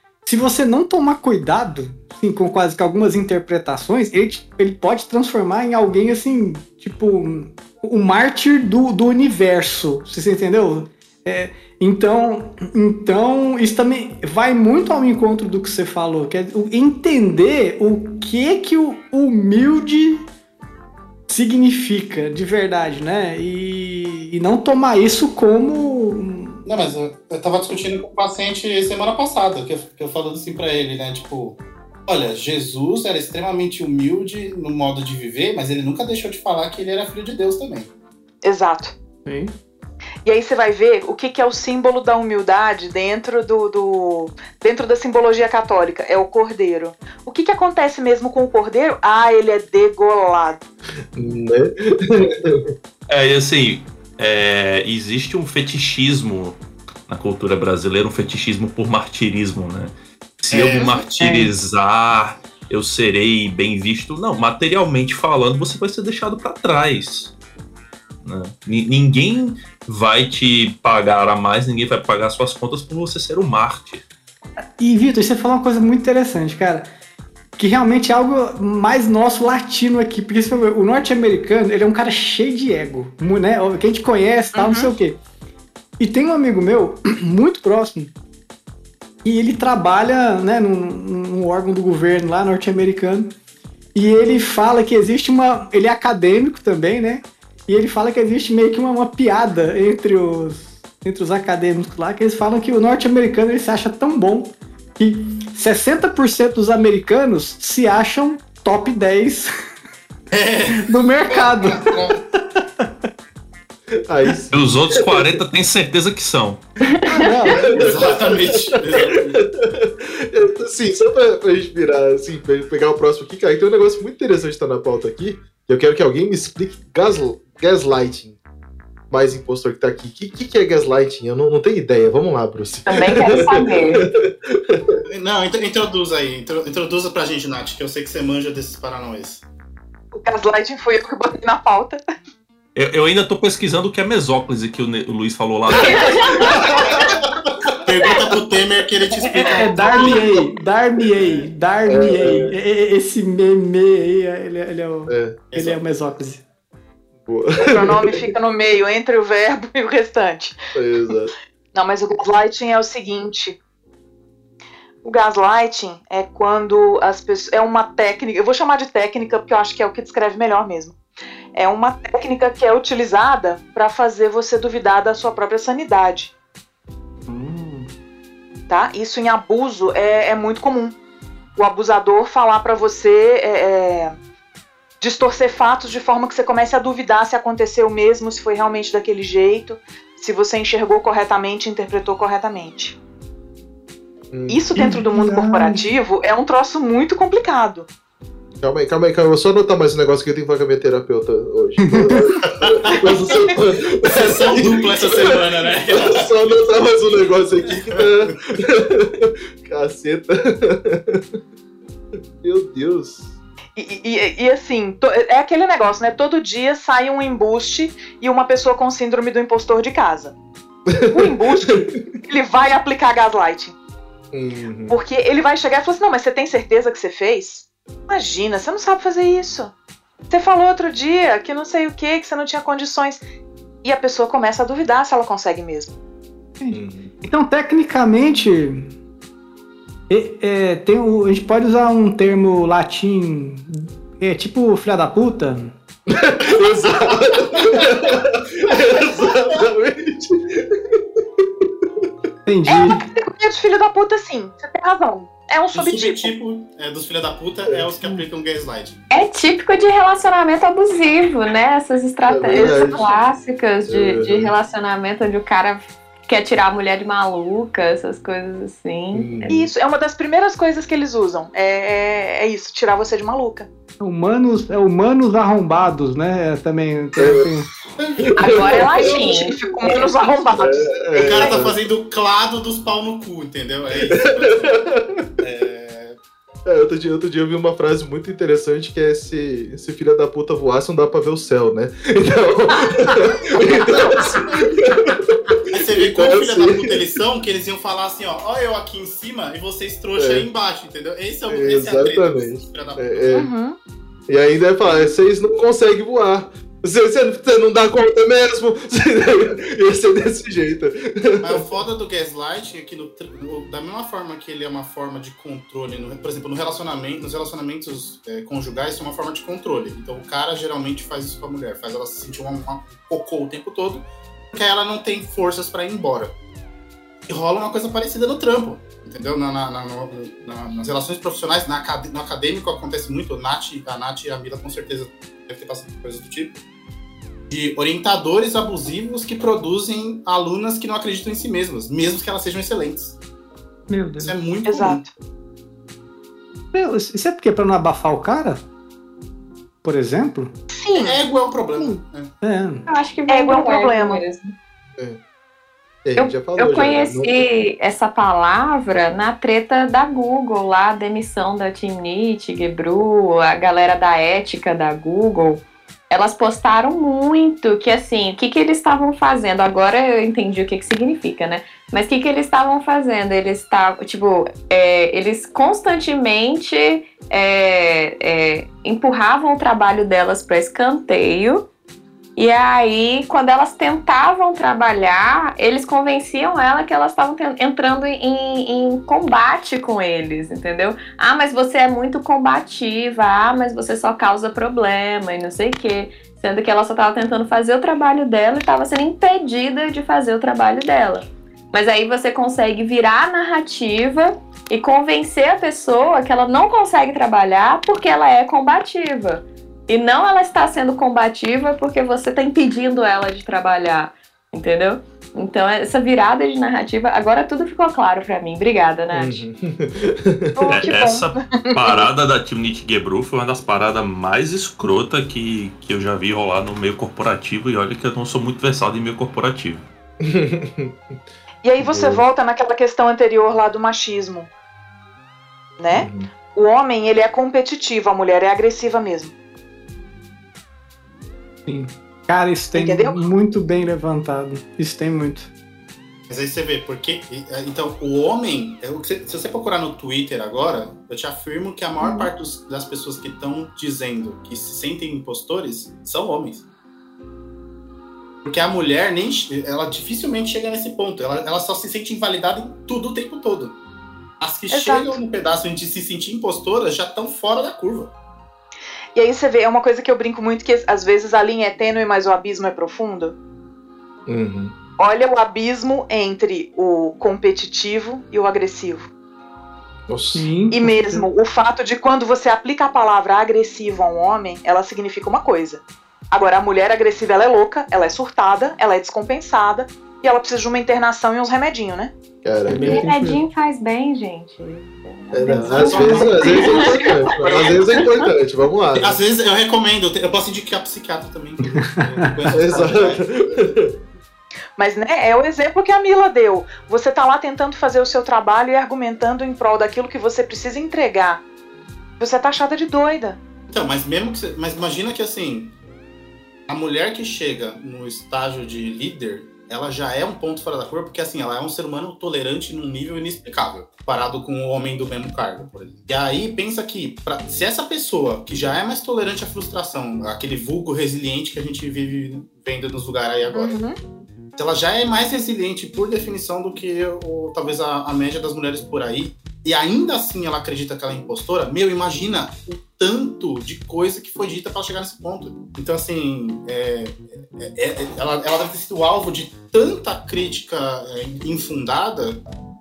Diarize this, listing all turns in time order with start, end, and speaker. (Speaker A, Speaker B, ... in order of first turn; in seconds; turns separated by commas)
Speaker A: 0.2-20.3, Speaker A: 21.3-26.6, Speaker B: 26.6-37.9, Speaker C: 38.4-38.9, Speaker A: 39.2-39.5, Speaker C: 40.2-50.6, Speaker D: 51.1-52.6, Speaker E: 53.1-67.3, Speaker B: 60.5-61.0, Speaker A: 61.2-61.5, Speaker E: 68.2-74.0, Speaker A: 74.8-76.9, Speaker A: 77.6-85.2, Speaker C: 84.5-84.9, Speaker A: 86.0-88.1, Speaker A: 89.2-93.3, Speaker A: 93.9-109.5, Speaker B: 110.3-112.2, Speaker A: 110.7-112.9, Speaker D: 114.0-115.3, Speaker E: 114.5-116.6, Speaker F: 116.9-117.6, Speaker A: 117.1-117.9, Speaker D: 117.6-128.4, Speaker B: 117.7-119.4, Speaker D: 129.1-135.0, Speaker F: 132.9-134.1, Speaker B: 135.1-139.4, Speaker C: 140.2-142.0, Speaker E: 142.8-146.4, Speaker F: 145.8-146.4, Speaker C: 145.9-147.1, Speaker D: 147.4-148.1, Speaker B: 147.8-150.4, Speaker A: 149.2-156.4, Speaker D: 150.1-150.3, Speaker D: 151.9-152.5, Speaker D: 155.1-155.4, Speaker B: 155.5-155.8, Speaker D: 157.2-158.2, Speaker C: 157.6-160.6, Speaker D: 160.7-161.3, Speaker C: 161.7-163.6, Speaker C: 165.0-170.9, Speaker C: 171.5-176.3, Speaker A: 177.3-177.9, Speaker C: 178.7-180.9, Speaker C: 181.6-184.1, Speaker C: 185.0-192.9, Speaker D: 194.3-194.6, Speaker C: 194.5-197.9, Speaker A: 194.8-195.8, Speaker D: 198.6-205.3, Speaker A: 201.8-202.3, Speaker B: 202.6-206.3, Speaker D: 206.0-211.2, Speaker B: 207.7-208.3, Speaker D: 212.4-213.3, Speaker C: 213.8-220.3, Speaker D: 220.9-222.0, Speaker C: 221.1-223.7, Speaker D: 224.3-224.9, Speaker C: 224.9-229.7, Speaker C: 230.3-233.2, Speaker C: 233.8-235.9, Speaker A: 236.6-238.9, Speaker D: 236.7-237.1, Speaker A: 240.1-245.7, Speaker D: 246.1-251.7, Speaker A: 252.4-253.0, Speaker C: 252.7-256.3, Speaker B: 255.7-259.0, Speaker D: 257.7-258.2, Speaker F: 259.1-269.6, Speaker D: 262.3-263.0, Speaker C: 262.5-263.2, Speaker D: 263.9-264.5, Speaker D: 269.1-269.5, Speaker C: 269.4-273.7, Speaker A: 274.0-277.7, Speaker D: 277.2-277.5, Speaker B: 278.0-279.4, Speaker D: 278.2-279.1, Speaker F: 278.4-280.1, Speaker C: 278.6-281.6, Speaker D: 280.6-281.8, Speaker B: 281.1-284.9, Speaker D: 284.6-285.2, Speaker B: 285.4-286.2, Speaker D: 286.6-295.2, Speaker C: 293.7-294.4, Speaker B: 294.3-294.6, Speaker B: 295.7-303.5, Speaker D: 296.0-297.0, Speaker D: 300.2-300.5, Speaker D: 301.5-303.5, Speaker C: 303.3-303.7, Speaker D: 304.3-311.6, Speaker B: 311.4-326.3, Speaker B: 327.3-336.6, Speaker B: 337.5-343.2, Speaker A: 343.9-344.3, Speaker B: 344.2-345.0, Speaker C: 344.6-345.1, Speaker A: 346.7-348.6, Speaker A: 349.8-350.5, Speaker C: 350.7-351.2, Speaker B: 350.9-352.3, Speaker A: 352.4-352.9, Speaker F: 352.9-354.5, Speaker C: 353.3-354.2, Speaker D: 356.0-357.4, Speaker F: 356.2-381.6, Speaker F: 382.4-419.4, Speaker D: 419.1-420.8, Speaker C: 420.6-422.1, Speaker E: 420.7-429.8, Speaker D: 430.2-431.2, Speaker C: 431.6-434.5, Speaker D: 431.8-432.2, Speaker C: 435.8-439.3, Speaker D: 435.9-436.3, Speaker A: 441.7-445.5, Speaker C: 442.7-443.2, Speaker B: 446.3-456.6, Speaker B: 458.4-463.8, Speaker B: 464.4-468.1, Speaker C: 464.7-465.2, Speaker C: 469.1-473.4, Speaker D: 474.3-474.7, Speaker C: 475.0-479.1, Speaker D: 480.1-480.5, Speaker A: 480.3-481.3, Speaker C: 480.7-492.1, Speaker D: 492.4-493.0, Speaker A: 492.7-493.4, Speaker F: 492.7-497.0, Speaker D: 495.3-499.2, Speaker C: 495.5-497.8, Speaker B: 495.8-497.8, Speaker B: 498.9-503.7, Speaker A: 501.7-502.5, Speaker D: 502.6-503.9, Speaker C: 504.8-511.4, Speaker C: 512.2-513.4, Speaker B: 513.7-515.7, Speaker B: 516.7-533.8, Speaker C: 533.5-534.0, Speaker B: 534.6-552.4